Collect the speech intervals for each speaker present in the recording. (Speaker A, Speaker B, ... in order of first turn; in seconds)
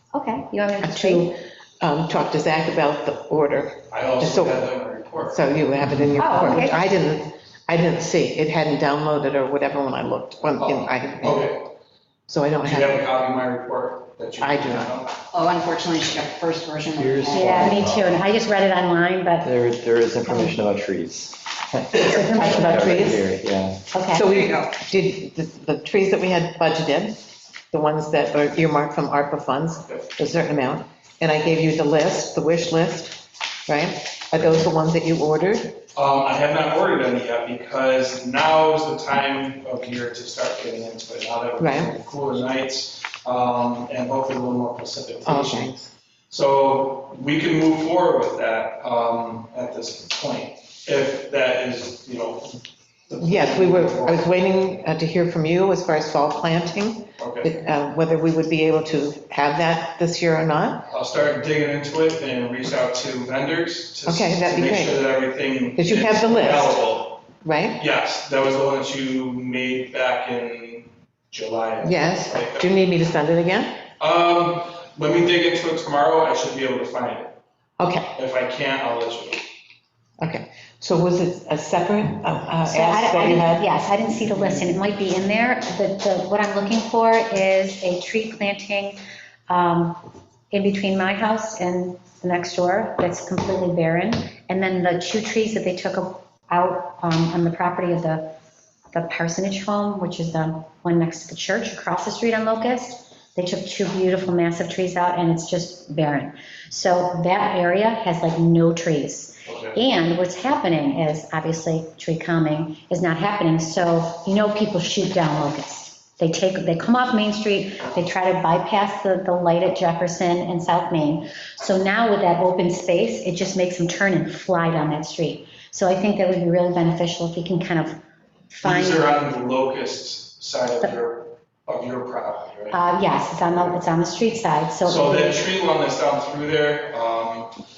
Speaker A: 0.1-1.3, 6.2-6.8, 17.3-19.5, 20.2-20.6, 22.0-22.9, 23.9-24.3, 82.7-98.3, 98.9-129.1, 132.7-135.4
Speaker B: 0.8-4.6, 5.2-11.6, 12.3-13.1, 14.4-15.0, 22.1-23.3, 24.1-27.2, 27.7-35.8, 41.6-42.0, 45.2-45.9, 53.2-60.9, 64.0-65.0, 65.8-66.8, 67.4-67.8, 71.8-73.8, 77.8-78.1, 80.2-83.7
Speaker C: 3.9-5.4, 10.6-11.7, 12.6-15.1, 35.9-45.7, 46.3-54.3, 57.2-57.5, 60.9-67.2, 67.8-72.7, 74.0-77.3, 78.1-79.5, 84.3-84.6, 109.5-109.7, 128.6-132.8, 134.8-137.6
Speaker D: 15.3-17.9, 24.2-24.7
Speaker E: 17.0-18.1, 19.4-21.4, 22.3-23.8